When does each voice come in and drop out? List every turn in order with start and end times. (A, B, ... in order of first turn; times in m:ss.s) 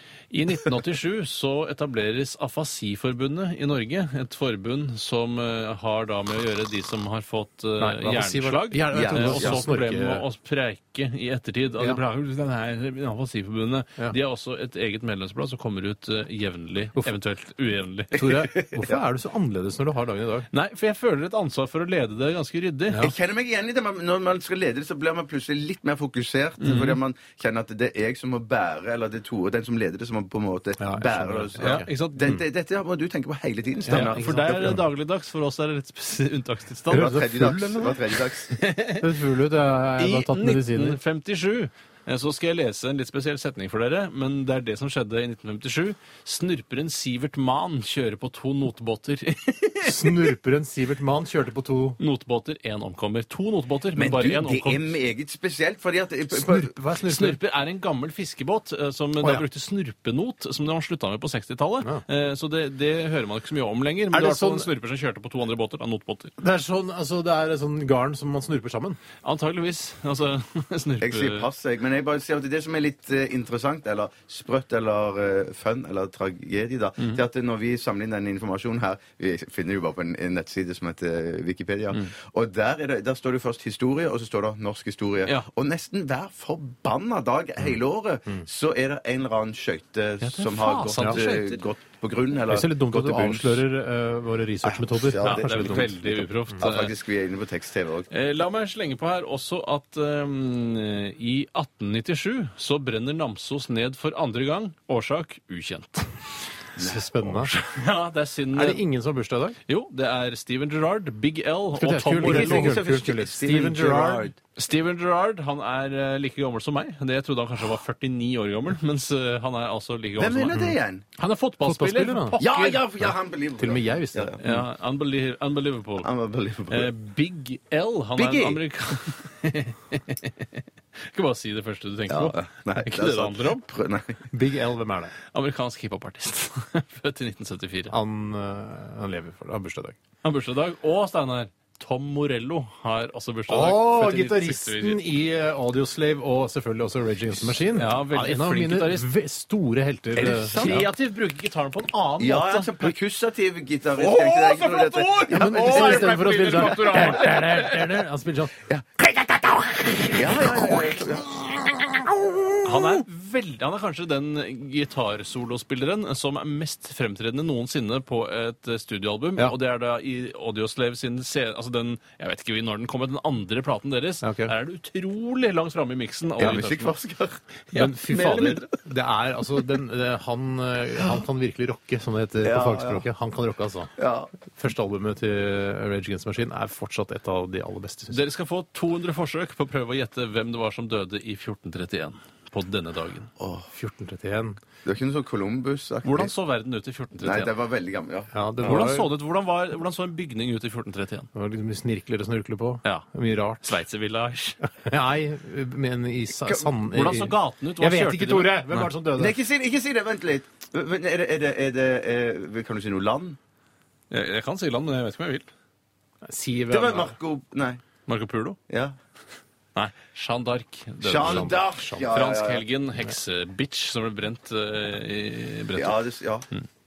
0:00.3-0:18.5 A
0:07.8-0:10.2 B
0:08.9-0:09.6 C
0:18.1-0:20.5 B
0:18.4-0:19.0 C
0:20.5-0:23.1 A
0:23.0-0:34.8 C
0:26.6-0:27.0 A
0:30.8-0:32.4 B
0:31.6-0:32.3 A
0:33.8-0:34.8 B
0:33.9-0:37.2 A
0:36.9-0:38.5 C
0:36.9-0:38.0 B
0:38.5-0:39.1 A
0:39.0-0:41.0 B
0:40.0-0:50.3 A
0:49.8-0:52.0 B
0:52.0-0:54.9 A
0:54.0-0:56.7 C
0:56.3-0:57.4 B
0:57.1-1:06.3 A
1:04.1-1:04.7 B
1:06.4-1:09.0 B
1:09.2-1:11.5 A
1:11.0-1:33.6 C
1:30.2-1:31.6 A
1:32.5-1:36.3 B
1:34.6-1:36.1 C
1:35.2-1:36.9 A
1:36.6-1:38.1 C
1:38.1-1:46.1 A
1:46.8-1:47.1 C
1:46.8-1:47.5 B
1:47.2-1:48.8 A
1:48.5-1:49.6 B
1:49.7-1:52.8 A
1:51.8-1:54.3 B
1:52.2-1:54.4 C
1:54.6-2:00.6 A
2:00.2-2:01.0 C
2:01.2-2:02.8 A
2:01.6-2:02.4 B
2:02.4-2:04.7 C
2:03.0-2:04.4 B
2:04.4-2:06.1 A
2:06.0-2:06.9 C
2:06.7-2:13.6 A
2:08.2-2:08.6 C
2:12.1-2:14.2 C
2:14.3-2:15.2 B
2:15.3-2:17.9 A
2:17.9-2:20.0 B
2:20.2-2:25.0 A
2:23.5-2:30.8 B
2:27.5-2:29.1 A
2:30.1-2:30.9 C
2:30.2-2:32.9 A
2:32.2-2:36.6 C
2:34.0-2:38.0 A
2:35.3-2:42.7 B
2:40.1-2:41.5 C
2:42.6-2:56.9 A
2:54.2-2:54.5 B
2:56.4-2:57.4 C
2:57.7-2:58.7 A
2:57.7-3:03.9 B
3:02.4-3:03.0 C
3:04.0-3:04.3 C
3:04.5-3:08.2 B
3:08.1-3:13.3 A
3:13.4-3:13.7 C
3:13.7-3:14.6 B
3:14.8-3:16.3 C
3:16.0-3:17.5 A
3:17.2-3:18.9 C
3:18.3-3:19.1 B
3:18.6-3:21.3 A
3:21.4-3:23.8 B
3:23.6-3:24.6 A
3:24.7-3:29.4 B
3:26.9-3:28.9 A
3:29.2-3:33.4 C
3:34.1-3:35.5 A
3:36.2-3:37.2 B
3:36.7-3:37.8 C
3:38.1-3:38.6 A
3:38.7-3:39.0 C
3:39.8-3:46.0 A
3:41.0-3:42.6 C
3:41.2-3:42.1 B
3:45.8-3:46.5 C